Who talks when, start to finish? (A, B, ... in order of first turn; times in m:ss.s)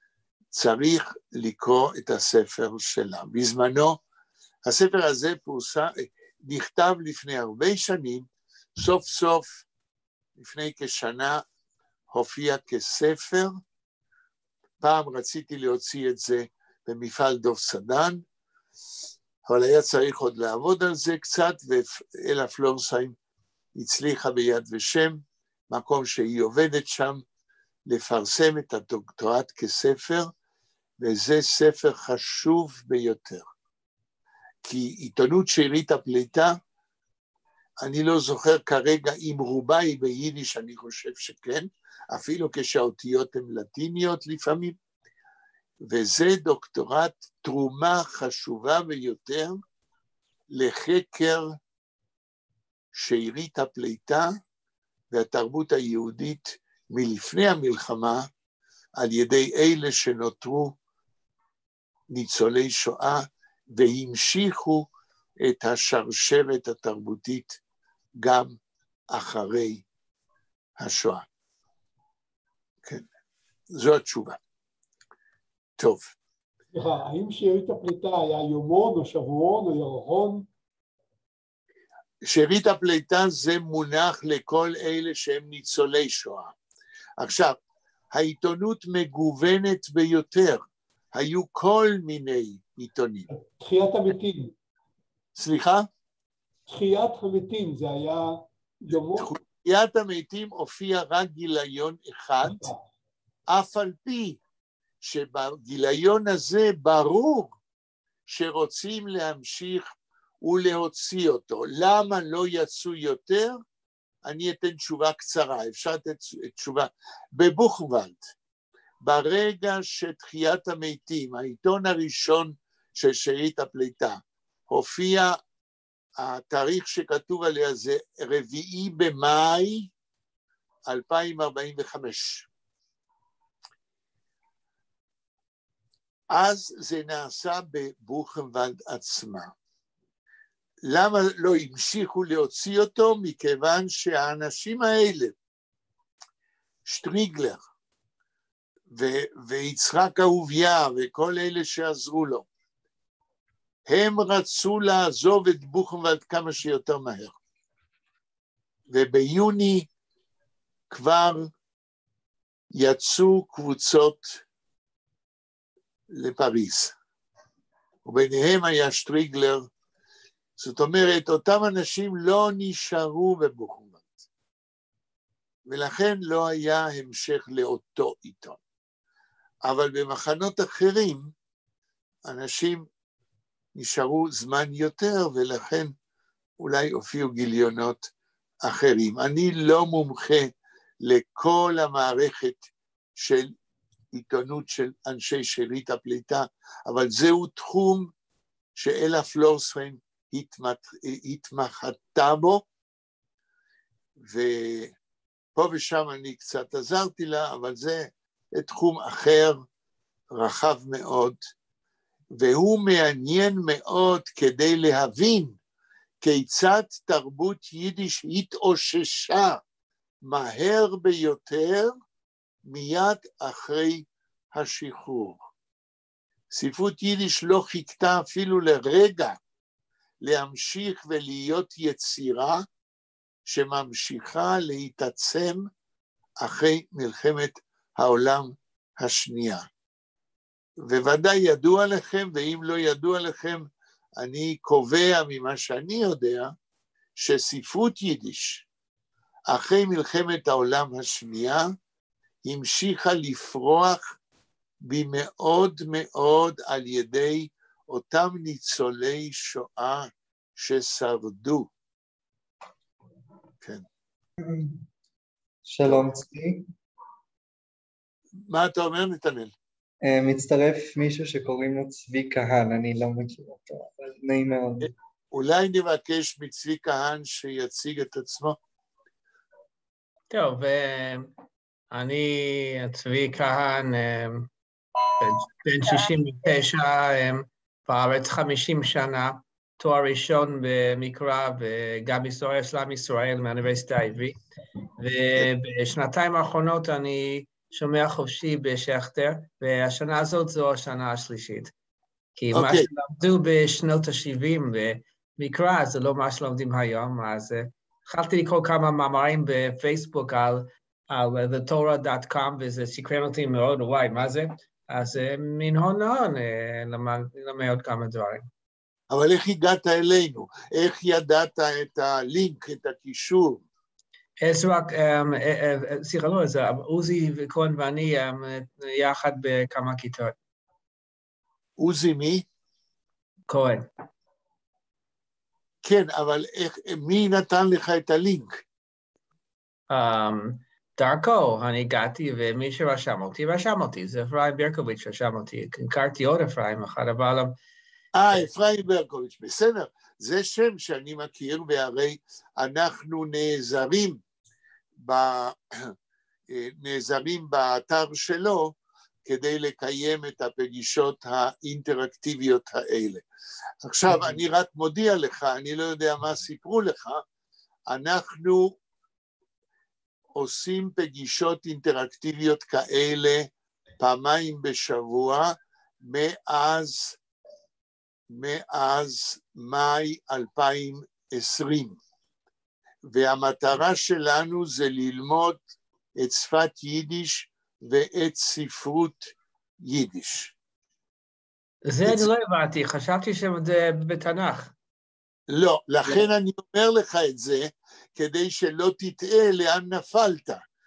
0:00.5-0:04.0 A
0:04.7-0:09.6 A
0:10.4-0:11.4 A
0:12.1-0:13.5 A
0:14.8-0:18.2 A
0:19.5-0:23.2 A
0:23.8-0:27.2 A
0:27.9-0:30.3 A
0:31.0-0:33.5 A
0:34.6-0:36.6 A
0:37.8-0:44.8 A
0:45.8-0:49.6 A
0:50.5-0:51.5 A
0:52.9-0:54.3 A
0:55.1-0:58.3 A
0:59.0-1:00.8 A
1:02.1-1:04.9 A
1:05.4-1:07.6 A
1:08.2-1:08.6 A
1:09.1-1:09.8 A
1:10.8-1:11.2 A
1:13.7-1:14.4 A
1:15.8-1:16.1 A
1:16.7-1:20.5 B
1:22.2-1:26.6 A
1:27.2-1:27.6 A
1:28.1-1:33.3 A
1:33.6-1:34.5 B
1:35.4-1:35.9 A
1:36.7-1:39.3 B
1:39.2-1:42.7 A
1:42.4-1:42.8 B
1:43.5-1:44.4 A
1:45.0-1:47.6 A
1:48.3-1:49.9 A
1:50.4-1:53.6 A
1:54.2-1:58.2 A
1:59.0-2:05.4 A
2:06.2-2:09.9 A
2:10.9-2:12.5 A
2:16.3-2:19.5 A
2:20.8-2:25.4 A
2:26.8-2:27.6 A
2:28.9-2:32.5 A
2:33.9-2:37.4 A
2:38.9-2:39.9 A
2:40.9-2:41.5 A
2:42.7-2:44.4 A
2:46.1-2:46.9 A
2:48.0-2:49.7 A
2:50.6-2:54.2 A
2:55.7-2:58.6 A
2:59.6-3:01.3 A
3:02.3-3:02.8 A
3:03.8-3:05.9 A
3:06.6-3:08.1 A
3:08.6-3:10.5 A
3:11.0-3:12.7 A
3:13.2-3:13.5 A
3:14.1-3:18.1 A
3:18.8-3:22.6 A
3:24.2-3:24.9 A
3:25.6-3:29.6 A
3:30.3-3:31.4 A
3:32.3-3:35.6 A
3:36.2-3:39.6 A
3:40.2-3:41.9 A
3:42.6-3:45.4 A
3:46.5-3:49.4 A
3:50.2-3:52.6 A
3:53.5-3:55.7 A
3:56.4-3:59.6 A
4:00.8-4:06.5 A
4:07.2-4:08.7 A
4:09.5-4:11.7 A
4:12.4-4:14.0 A
4:14.8-4:21.7 A
4:24.4-4:24.8 C
4:25.7-4:26.7 C
4:28.5-4:29.5 A
4:30.0-4:34.9 C
4:34.8-4:38.6 A
4:40.3-4:41.3 D
4:41.9-4:44.5 D
4:45.2-4:54.4 D
4:55.0-5:01.7 D
5:02.4-5:18.5 D
5:02.5-5:02.9 A
5:19.1-5:23.6 A
5:24.4-5:30.4 D
5:31.8-5:32.5 A
5:33.5-5:33.9 D
5:35.8-5:38.6 A
5:39.9-5:47.6 D
5:48.2-5:54.2 A
5:55.0-5:55.9 A
5:56.5-6:03.2 A
6:03.8-6:07.2 A
6:07.9-6:08.8 A
6:10.4-6:13.5 A
6:14.0-6:17.2 A
6:18.3-6:22.0 A
6:23.0-6:25.6 A
6:26.2-6:30.5 A
6:31.8-6:34.7 D
6:35.5-6:40.6 A